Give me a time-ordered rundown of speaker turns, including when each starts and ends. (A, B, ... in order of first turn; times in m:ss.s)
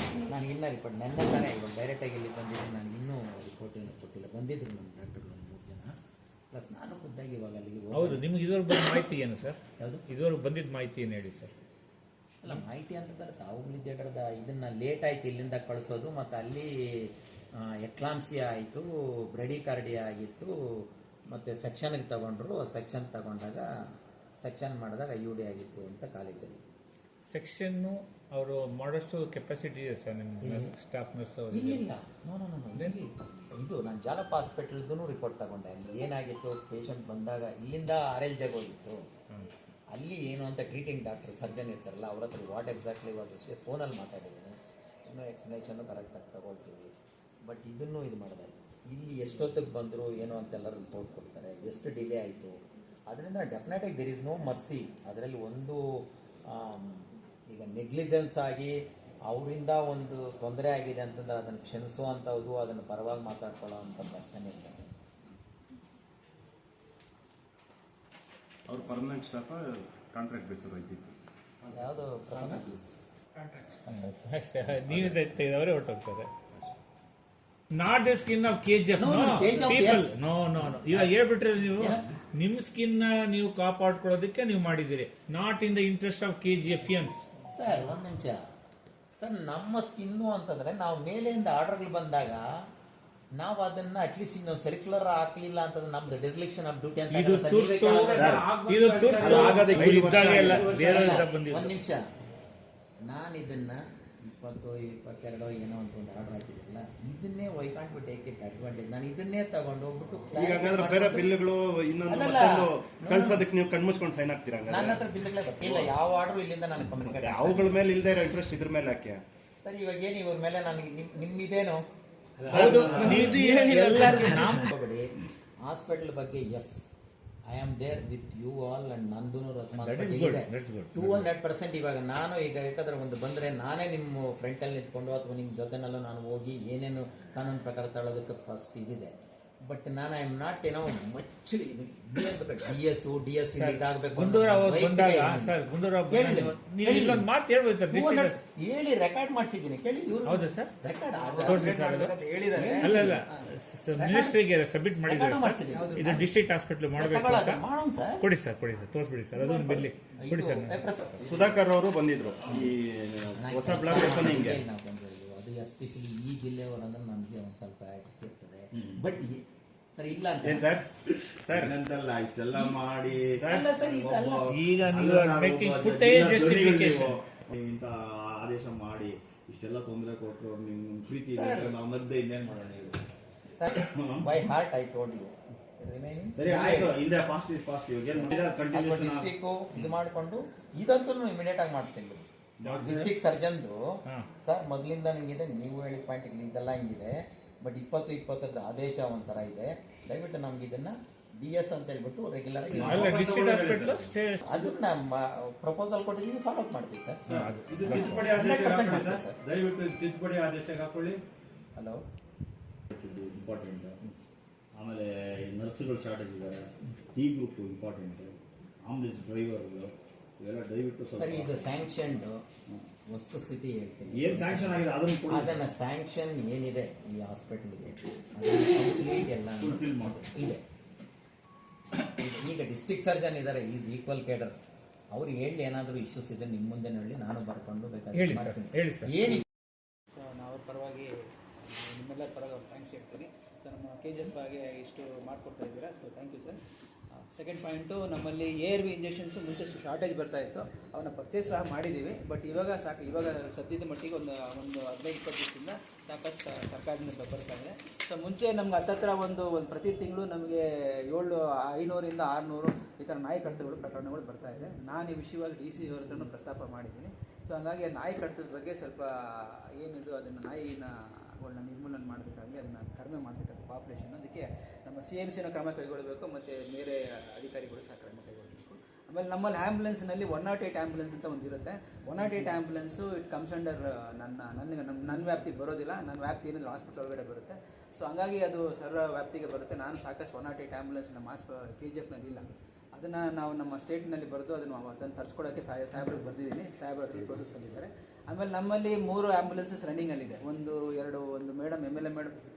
0:00.2-0:05.9 A
0:06.5-0:08.2 A
0:07.9-0:11.6 B
0:09.8-0:10.1 A
0:12.4-0:23.6 A
0:24.4-0:26.6 A
0:27.2-0:31.8 B
0:30.4-0:30.7 A
0:31.5-0:39.0 A
0:39.9-0:46.9 A
0:47.4-0:52.6 A
0:53.1-0:55.8 A
0:56.5-0:58.8 A
0:59.3-1:04.9 A
1:08.7-1:11.1 C
1:11.7-1:12.7 A
1:13.4-1:16.3 B
1:17.7-1:27.2 B
1:19.0-1:20.2 A
1:20.7-1:21.2 A
1:21.7-1:22.1 A
1:27.5-1:28.4 A
1:29.2-1:32.5 A
1:33.4-1:38.5 A
1:37.1-1:41.7 B
1:38.0-1:41.2 D
1:38.1-1:38.4 C
1:39.1-1:39.8 E
1:39.2-1:39.6 A
1:39.4-1:40.6 C
1:40.4-1:42.1 A
1:40.4-1:40.7 E
1:43.0-1:51.3 A
1:50.3-1:55.0 C
1:52.1-1:53.4 A
1:54.7-1:57.8 A
1:55.6-1:55.9 C
1:57.0-1:59.2 C
1:59.6-2:01.8 A
2:02.4-2:02.7 D
2:02.5-2:06.8 A
2:02.5-2:04.2 B
2:02.6-2:04.4 C
2:02.7-2:03.0 E
2:07.5-2:27.3 A
2:09.8-2:11.3 B
2:23.5-2:28.4 B
2:27.9-2:31.8 A
2:30.2-2:30.7 B
2:31.2-2:33.5 F
2:31.4-2:32.1 B
2:32.5-2:33.2 A
2:32.8-2:37.6 B
2:34.0-2:34.4 A
2:35.0-2:36.3 A
2:35.7-2:36.3 F
2:37.0-2:38.2 A
2:38.2-2:41.0 B
2:40.2-2:41.6 A
2:41.2-2:42.7 C
2:42.4-2:43.4 E
2:43.4-2:49.4 A
2:43.4-2:44.6 C
2:50.0-2:50.8 A
2:50.4-2:51.7 C
2:51.5-3:03.0 E
2:53.3-2:54.5 A
2:54.5-2:57.2 B
3:01.3-3:01.8 A
3:03.6-3:07.0 A
3:03.6-3:04.3 E
3:06.3-3:09.3 E
3:08.1-3:13.8 A
3:12.6-3:13.0 E
3:14.4-3:23.2 A
3:22.7-3:24.4 B
3:23.0-3:24.0 C
3:24.4-3:29.4 A
3:27.2-3:28.4 B
3:27.4-3:28.8 C
3:28.0-3:31.2 D
3:29.5-3:29.8 C
3:30.3-3:31.0 C
3:31.7-3:32.0 A
3:32.9-3:34.0 E
3:34.7-3:41.8 E
3:41.2-3:42.4 A
3:43.1-3:50.6 A
3:44.1-3:45.6 E
3:49.6-3:50.3 E
3:52.0-3:54.6 A
3:55.1-3:59.4 A
3:58.1-3:59.3 B
4:00.1-4:06.6 F
4:07.1-5:02.4 F